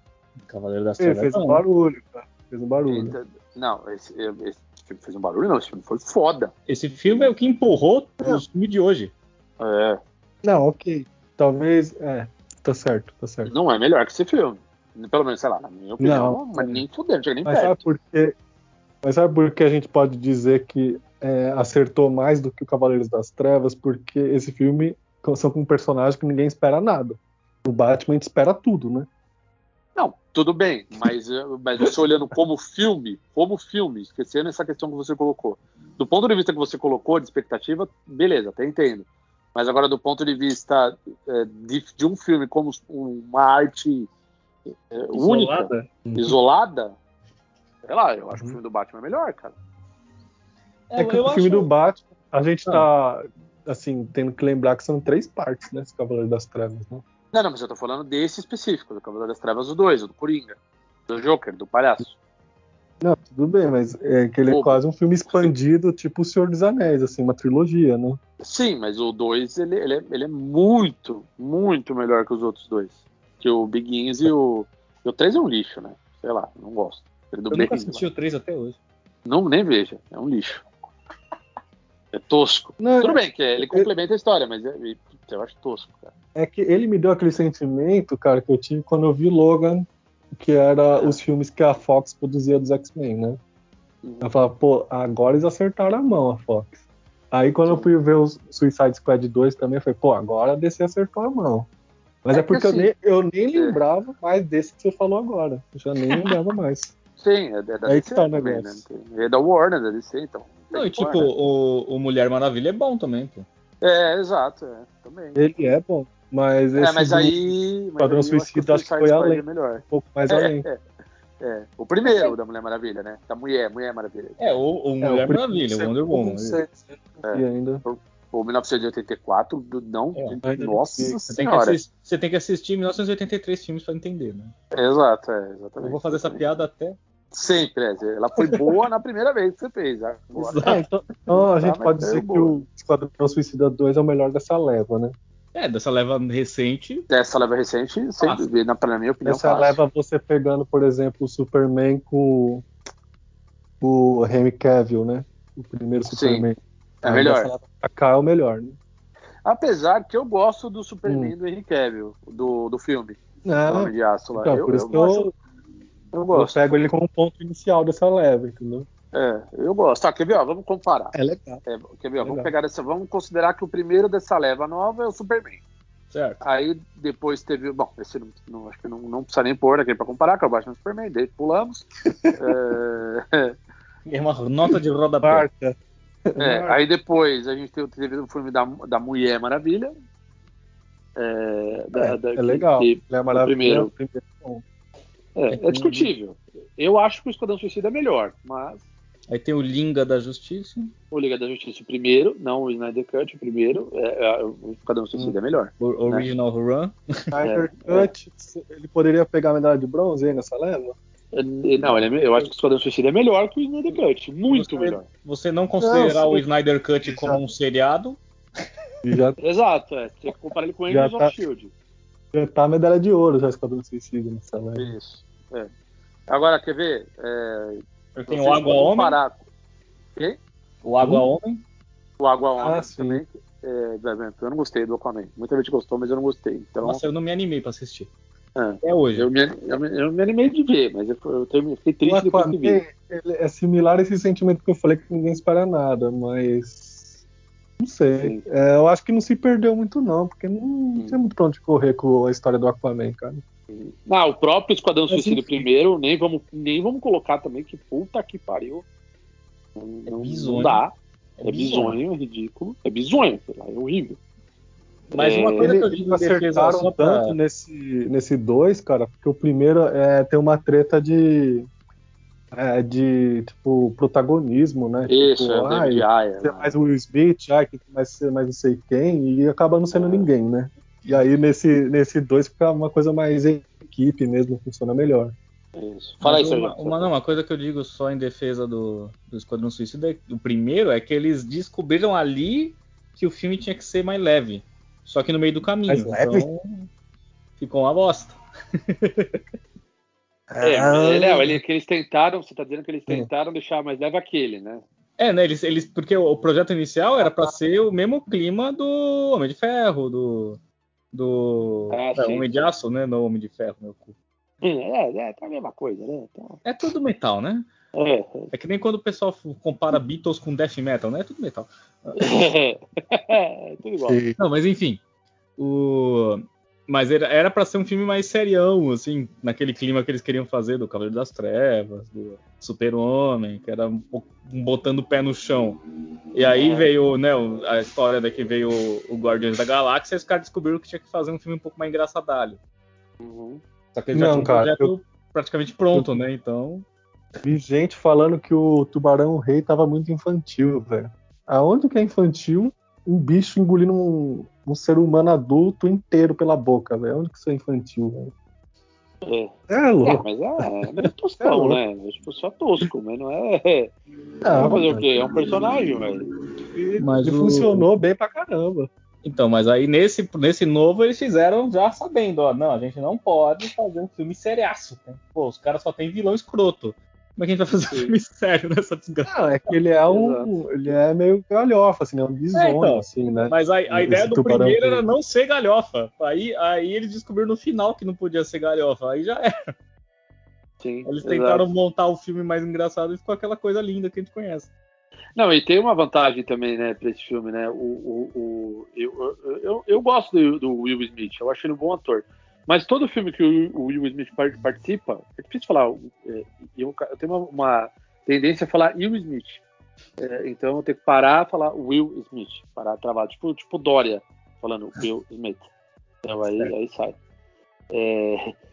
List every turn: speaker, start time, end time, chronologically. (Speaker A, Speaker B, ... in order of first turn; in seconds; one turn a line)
Speaker A: 0.5-1.6
Speaker B: 1.0-3.1
Speaker C: 2.9-6.5
Speaker A: 6.7-9.1
Speaker C: 9.6-10.0
Speaker B: 10.4-13.5
Speaker C: 13.4-17.8
Speaker B: 16.0-16.8
Speaker B: 17.4-18.3
Speaker B: 19.0-29.1
Speaker C: 29.9-44.1
Speaker C: 44.9-46.9
Speaker B: 45.2-46.4
Speaker A: 45.2-45.5
Speaker C: 47.9-49.5
Speaker A: 50.9-51.7
Speaker B: 51.0-57.0
Speaker C: 57.3-60.5
Speaker C: 61.1-62.1
Speaker B: 63.0-68.2
Speaker C: 64.5-64.8
Speaker C: 68.4-78.0
Speaker A: 77.5-78.8
Speaker C: 79.2-80.7
Speaker C: 82.1-86.1
Speaker B: 82.8-83.9
Speaker B: 86.3-93.4
Speaker C: 94.0-94.3
Speaker B: 94.2-96.7
Speaker B: 97.3-101.7
Speaker B: 102.2-106.9
Speaker C: 102.3-102.9
Speaker C: 107.2-111.3
Speaker B: 107.8-108.8
Speaker A: 110.7-113.5
Speaker C: 113.8-115.6
Speaker B: 115.3-117.4
Speaker C: 116.8-120.8
Speaker B: 118.0-120.7
Speaker C: 121.4-124.4
Speaker A: 122.0-122.3
Speaker A: 124.4-126.6
Speaker B: 125.0-127.8
Speaker C: 127.2-131.8
Speaker B: 130.4-131.3
Speaker A: 131.3-134.5
Speaker C: 134.7-136.4
Speaker A: 135.8-137.0
Speaker C: 137.3-142.5
Speaker A: 138.4-138.7
Speaker A: 140.3-140.8
Speaker B: 140.6-145.1
Speaker A: 145.5-147.1
Speaker C: 147.1-149.8
Speaker A: 148.2-148.6
Speaker B: 149.2-152.7
Speaker B: 153.8-158.8
Speaker C: 156.1-156.5
Speaker C: 157.0-157.5
Speaker C: 159.4-165.3
Speaker B: 161.1-161.3
Speaker B: 163.4-165.3
Speaker C: 166.1-166.6
Speaker B: 166.3-168.9
Speaker C: 169.1-171.1
Speaker B: 171.1-171.6
Speaker C: 171.6-175.6
Speaker B: 172.2-172.5
Speaker A: 176.1-176.4
Speaker C: 176.4-183.5
Speaker A: 184.1-185.5
Speaker B: 185.2-185.8
Speaker B: 186.3-186.8
Speaker C: 186.4-189.9
Speaker C: 191.2-193.9
Speaker B: 191.9-194.6
Speaker C: 195.3-198.8
Speaker A: 195.5-195.9
Speaker B: 195.7-196.1
Speaker A: 199.3-200.9
Speaker C: 201.1-206.3
Speaker A: 205.8-207.0
Speaker B: 207.3-210.9
Speaker C: 207.4-208.1
Speaker C: 211.3-215.0
Speaker A: 214.5-218.2
Speaker B: 215.8-216.4
Speaker B: 217.0-217.4
Speaker B: 219.0-219.4
Speaker C: 219.4-221.7
Speaker B: 220.9-221.3
Speaker B: 222.3-224.9
Speaker C: 224.8-225.7
Speaker C: 226.3-229.4
Speaker A: 228.1-229.2
Speaker A: 230.8-231.6
Speaker B: 231.0-231.3
Speaker C: 232.2-237.0
Speaker B: 232.6-233.2
Speaker A: 236.8-238.1
Speaker C: 238.6-242.8
Speaker A: 238.8-239.3
Speaker B: 242.0-247.2
Speaker B: 247.8-253.4
Speaker C: 253.7-258.8
Speaker B: 255.1-255.7
Speaker C: 259.8-260.9
Speaker A: 260.1-260.8
Speaker A: 261.4-262.0
Speaker C: 261.4-264.2
Speaker A: 265.1-267.4
Speaker C: 265.1-265.7
Speaker B: 265.6-271.7
Speaker B: 272.5-285.3
Speaker C: 275.1-276.7
Speaker C: 279.9-280.3
Speaker C: 285.8-287.4
Speaker A: 286.2-296.9
Speaker B: 295.9-296.5
Speaker A: 297.6-298.4
Speaker A: 298.9-299.4
Speaker B: 300.5-301.6
Speaker C: 300.6-304.8
Speaker A: 305.2-310.6
Speaker A: 311.1-314.1
Speaker C: 311.9-312.7
Speaker C: 314.6-316.6
Speaker A: 316.6-317.7
Speaker C: 317.9-318.5
Speaker A: 318.5-322.2
Speaker C: 322.2-324.2
Speaker B: 324.1-324.4
Speaker A: 324.4-325.0
Speaker A: 325.6-335.8
Speaker A: 336.3-342.6
Speaker C: 336.5-336.9
Speaker C: 343.2-343.6
Speaker A: 343.9-346.8
Speaker B: 344.1-344.9
Speaker B: 347.4-358.3
Speaker C: 359.2-359.5
Speaker B: 359.7-360.2
Speaker C: 360.0-363.9
Speaker B: 361.0-361.8
Speaker B: 364.4-365.1
Speaker C: 364.5-366.2
Speaker B: 366.7-368.9
Speaker A: 367.0-367.8
Speaker A: 369.2-379.3
Speaker B: 379.3-385.0
Speaker C: 380.1-380.5
Speaker A: 382.5-389.7
Speaker C: 390.8-391.6
Speaker A: 391.1-394.7
Speaker C: 395.4-409.6
Speaker C: 410.2-415.6
Speaker C: 416.2-417.2
Speaker C: 417.9-418.5